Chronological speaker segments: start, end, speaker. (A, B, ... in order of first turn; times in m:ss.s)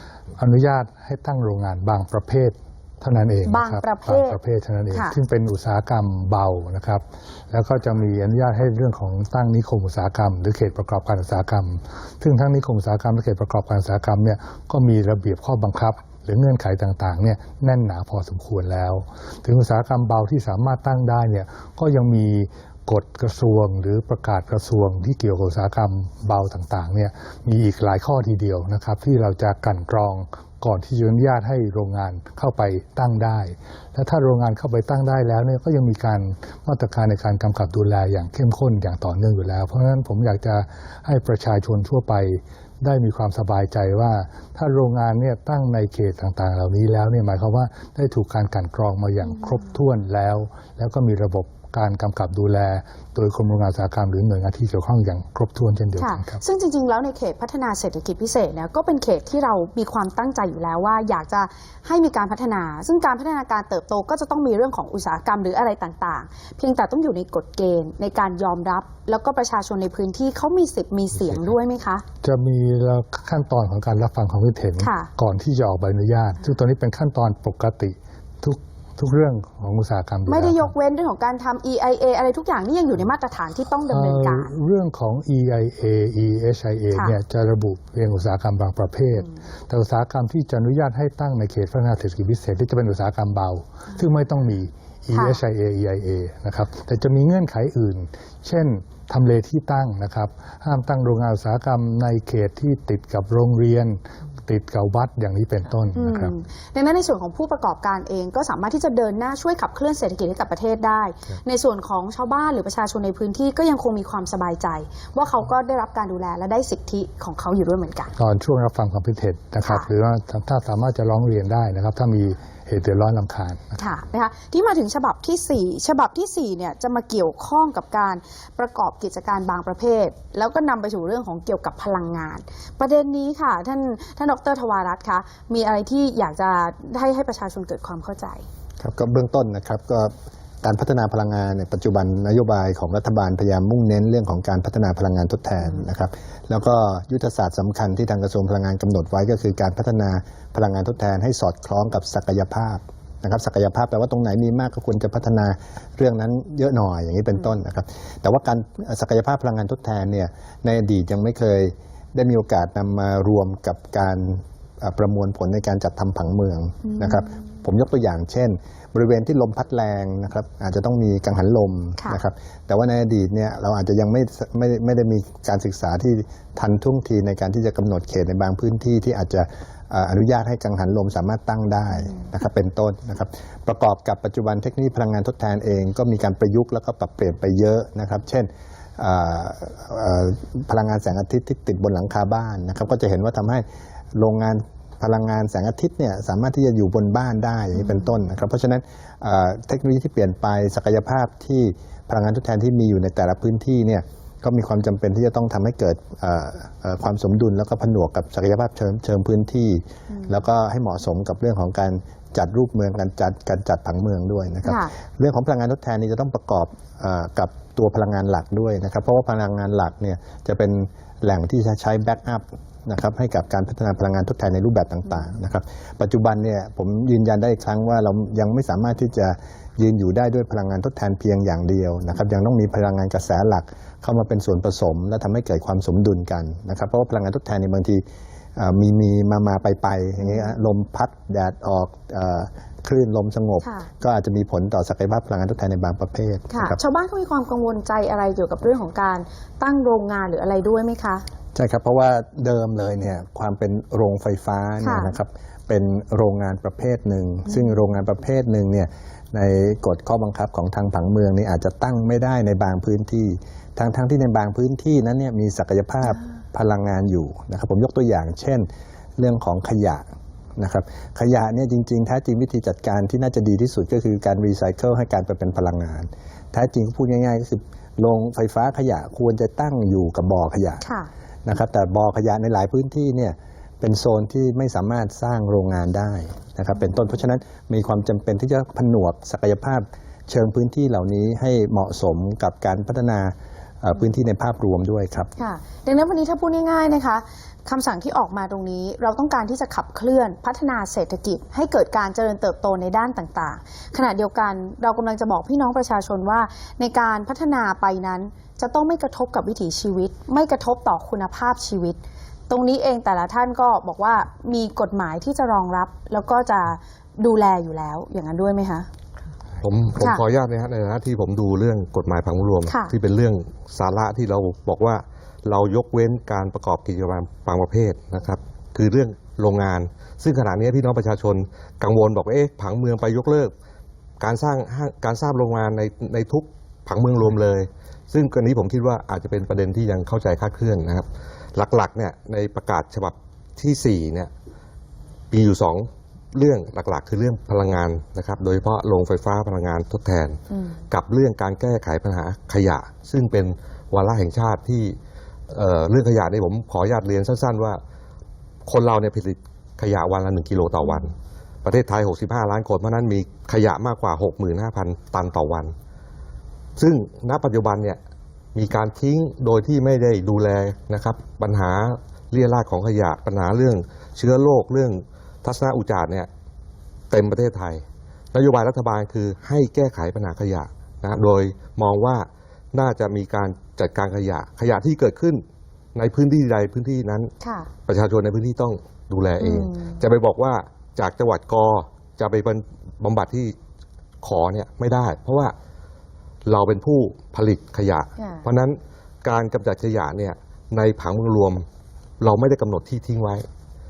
0:00.4-0:56.4 A
0:03.5-0:04.4 B
0:04.9-0:05.2 B
0:49.2-0:49.6 B
0:56.0-1:12.0 B
1:12.2-1:20.7 A
1:14.8-1:15.1 B
1:20.3-1:24.6 B
1:23.9-1:46.4 A
1:26.9-1:27.2 B
1:35.1-1:35.4 B
1:46.0-1:58.1 B
1:58.2-2:03.8 A
1:59.6-1:59.9 B
2:03.8-2:18.4 B
2:18.8-3:13.6 C
2:46.8-2:47.2 B
3:14.2-3:58.0 C
3:17.8-3:18.0 B
3:30.1-3:30.4 B
3:34.6-3:34.9 B
3:58.6-4:06.8 C
4:00.2-4:00.5 B
4:03.6-4:03.9 B
4:06.5-4:11.2 B
4:11.6-4:28.7 C
4:14.8-4:15.1 B
4:29.2-4:40.8 C
4:40.8-4:41.1 B
4:41.4-4:55.3 C
4:55.4-5:18.9 B
5:19.6-5:33.5 D
5:22.6-5:22.9 B
5:34.2-5:44.3 D
5:45.3-5:50.4 D
5:50.5-5:50.8 B
5:50.9-5:55.0 D
5:55.5-5:57.8 D
5:58.7-6:05.7 D
6:06.8-6:08.0 D
6:08.5-6:16.3 D
6:17.1-6:25.4 D
6:26.0-6:27.3 D
6:27.4-6:27.7 B
6:27.9-6:33.6 D
6:29.4-6:30.0 B
6:34.2-6:35.6 D
6:36.5-6:41.7 D
6:38.2-6:38.5 B
6:42.2-6:43.5 D